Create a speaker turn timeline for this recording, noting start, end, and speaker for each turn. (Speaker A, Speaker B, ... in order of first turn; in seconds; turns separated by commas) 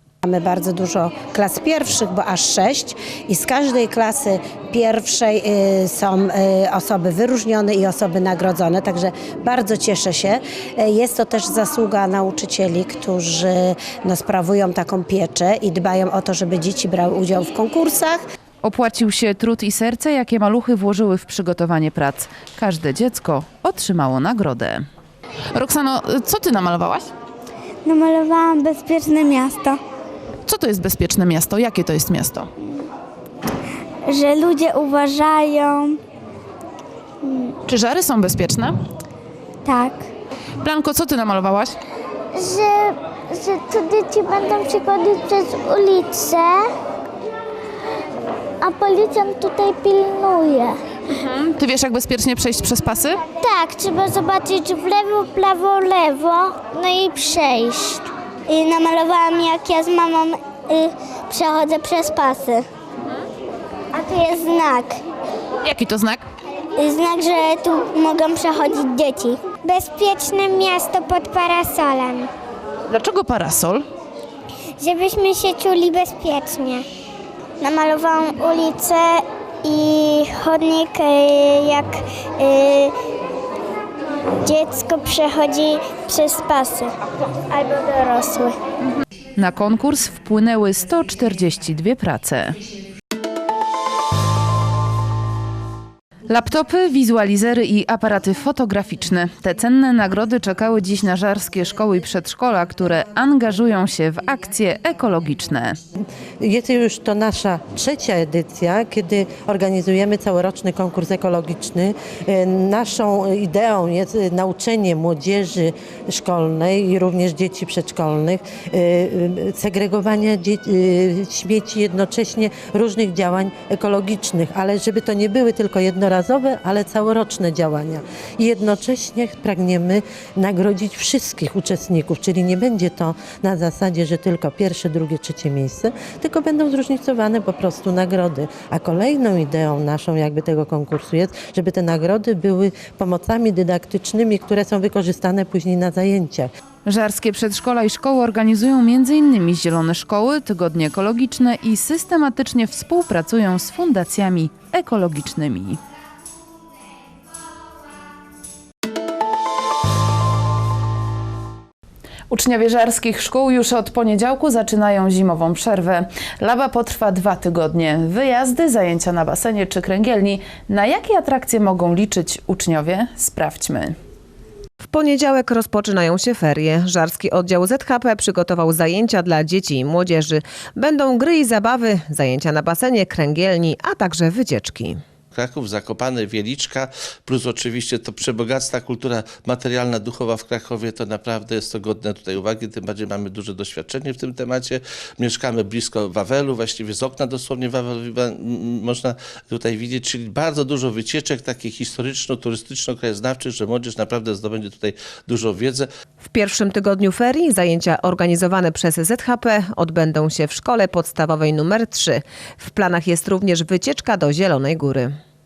Speaker A: 0.2-18.2, Speaker B: 18.6-24.8, Speaker B: 25.5-27.0, Speaker C: 27.8-29.8, Speaker B: 30.5-32.5, Speaker C: 34.1-36.0, Speaker C: 37.2-37.5, Speaker B: 37.7-38.7, Speaker C: 39.6-40.0, Speaker B: 40.7-41.6, Speaker C: 42.3-46.6, Speaker C: 48.6-50.7, Speaker B: 52.0-53.0, Speaker C: 53.4-62.6, Speaker C: 63.9-65.0, Speaker C: 66.8-72.3, Speaker B: 72.9-73.8, Speaker C: 74.8-76.8, Speaker C: 77.6-82.9, Speaker C: 84.4-86.9, Speaker C: 87.5-88.5, Speaker B: 89.4-92.6, Speaker B: 96.3-105.8, Speaker D: 106.4-146.5, Speaker B: 146.8-155.8, Speaker B: 162.3-173.9, Speaker E: 174.8-185.0, Speaker F: 185.3-205.9, Speaker E: 206.2-215.1